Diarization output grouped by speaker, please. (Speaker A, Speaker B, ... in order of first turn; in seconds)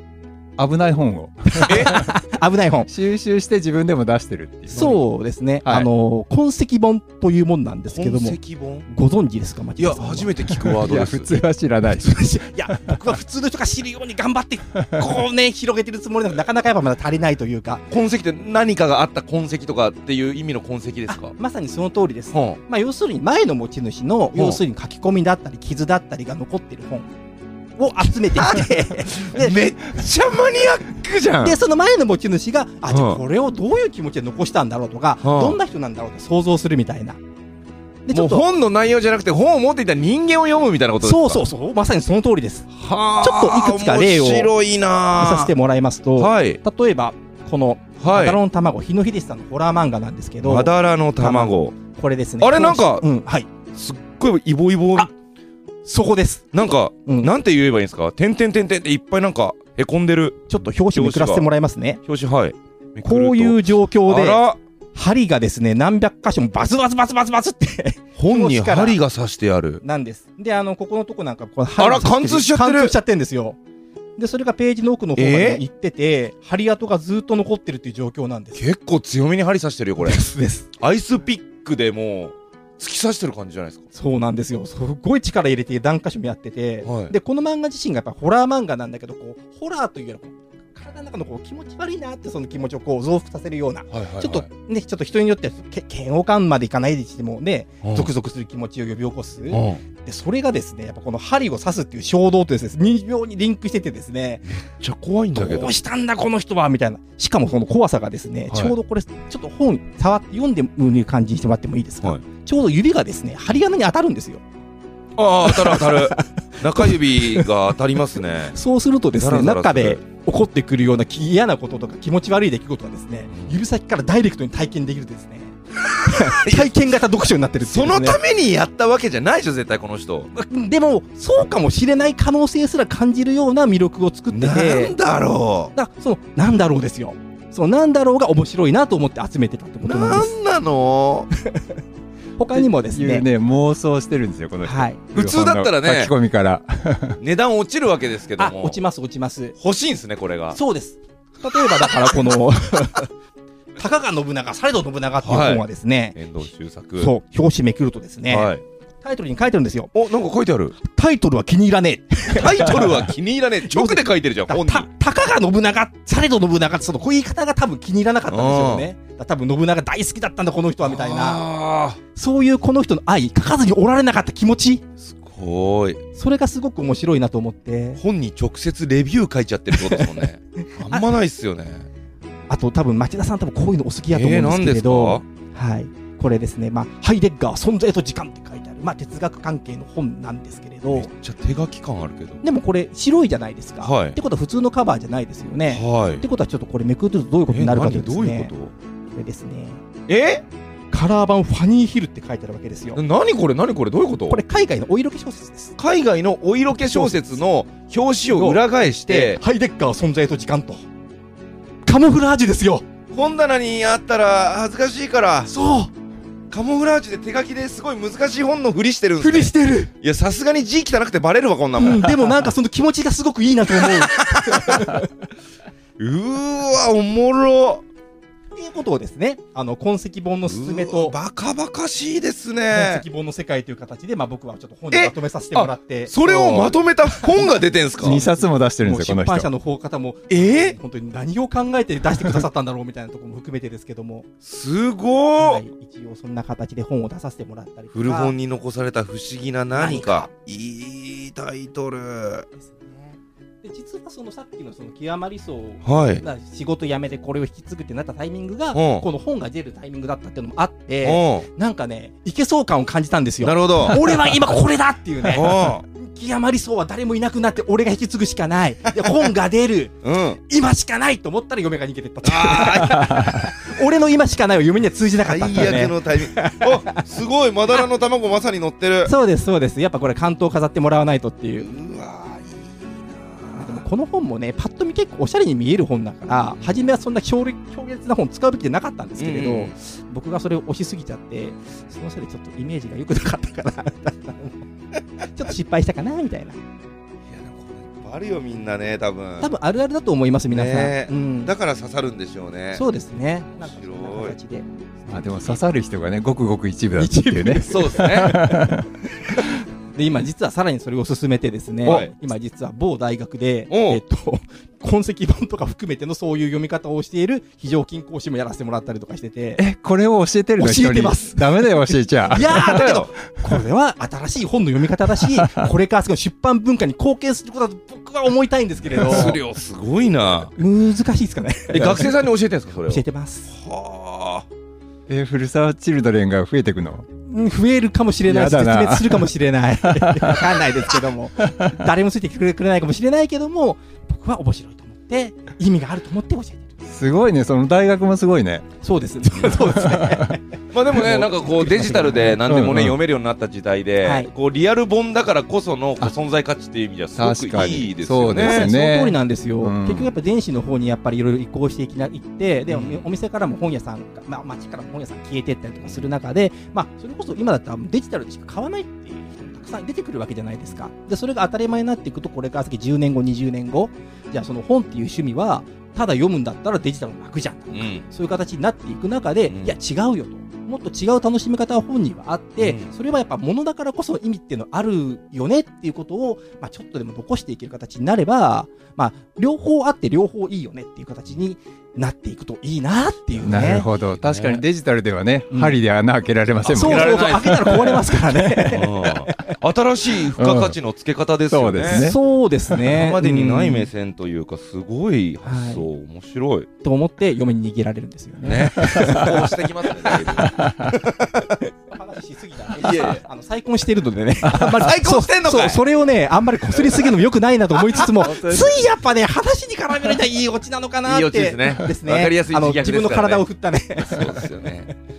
Speaker A: 0.6-2.1, 2.9-5.0, 10.7-12.2, 12.7-13.0, 142.5-147.2, 236.2-236.8, 238.0-239.5, 305.1-308.9, 319.6-323.1, 325.4-325.6, 335.1-337.1, 338.3-339.3, 339.8-340.9, 341.5-341.8, 346.9-348.6, 349.4-350.3, 352.4-353.0, 357.2-360.1, 393.4-398.4, 400.4-400.8, 401.5-402.2, 408.4-409.3, 418.2-418.8
Speaker B: 1.6-2.9, 4.7-10.3, 12.0-17.8, 21.1-27.1, 27.8-29.6, 31.4-37.2, 38.0-38.5, 41.0-44.5, 45.1-53.5, 55.8-57.3, 60.5-62.0, 63.0-69.0, 69.8-73.6, 74.2-78.6, 80.0-80.7, 83.9-104.4, 105.3-114.4, 115.4-117.5, 118.5-128.2, 130.3-134.9, 135.7-140.3, 141.4-141.8, 142.4-143.3, 144.6-145.0, 148.4-149.5, 150.5-153.1, 153.8-156.2, 157.0-159.9, 160.8-163.1, 163.7-171.4, 172.1-174.8, 176.1-178.0, 182.5-191.1, 192.4-198.5, 199.1-199.8, 200.9-203.0, 204.3-205.7, 206.7-207.4, 208.3-210.8, 211.8-212.8, 215.4-215.9, 219.2-219.9, 221.8-225.1, 228.5-231.1, 232.7-236.2, 237.2-244.3, 245.3-248.3, 249.7-250.3, 252.6-253.0, 253.6-277.0, 279.0-281.7, 283.6-294.6, 295.2-296.6, 299.4-301.5, 302.7-305.6, 306.9-308.9, 309.9-319.6, 320.6-329.4, 330.5-332.2, 332.8-333.5, 337.3-346.7, 348.8-352.4, 354.0-354.3, 358.3-393.9, 395.5-395.8, 396.7-399.5, 401.9-403.9, 405.4-405.8, 406.8-409.5, 410.1-410.4, 411.8-424.9
Speaker C: 1.7-2.0, 7.9-8.9, 9.8-11.3, 17.9-21.3, 22.3-22.6, 24.3-24.6, 28.4-31.6, 32.9-33.2, 35.2-35.6, 38.1-41.4, 42.8-45.5, 46.2-46.6, 48.0-48.4, 50.4-51.8, 52.4-53.0, 53.7-55.1, 56.5-60.4, 60.9-61.4, 62.0-64.6, 68.2-69.8, 71.8-72.9, 75.2-75.6, 78.5-80.2, 80.8-83.8, 86.8-87.1, 93.9-94.5, 97.8-98.1, 99.5-99.8, 104.8-105.8, 115.2-118.5, 119.2-120.0, 125.9-126.9, 127.6-130.3, 134.3-135.7, 139.8-141.3, 145.1-146.1, 147.2-148.8, 149.6-150.6, 151.8-152.1, 155.2-155.6, 156.1-157.1, 158.3-158.6, 159.9-160.8, 162.3-164.9, 168.3-168.9, 170.8-172.0, 175.1-176.0, 178.0-181.9, 184.1-185.2, 190.9-192.4, 193.8-194.2, 195.7-196.2, 197.5-198.7, 200.1-200.4, 202.9-204.4, 205.8-209.4, 213.1-215.5, 216.5-222.5, 223.8-224.9, 226.0-227.8, 230.4-233.0, 234.9-238.2, 240.3-240.8, 244.4-245.6, 247.9-252.4, 255.8-256.2, 258.7-259.0, 261.0-261.4, 263.4-264.0, 265.3-265.8, 270.0-270.4, 272.2-273.1, 275.2-279.1, 281.6-283.8, 289.2-289.7, 297.3-299.5, 300.5-302.8, 303.5-304.4, 307.6-308.4, 311.8-312.1, 313.7-314.0, 322.7-323.1, 328.9-330.5, 331.7-334.4, 350.7-358.7, 362.7-363.0, 377.7-378.0, 379.5-379.8, 382.6-382.9, 394.2-394.6, 396.6-397.9, 398.6-402.1, 402.9-406.7, 408.4-411.2, 412.8-413.2, 414.5-415.8, 416.8-417.1, 421.1-423.4, 424.0-424.9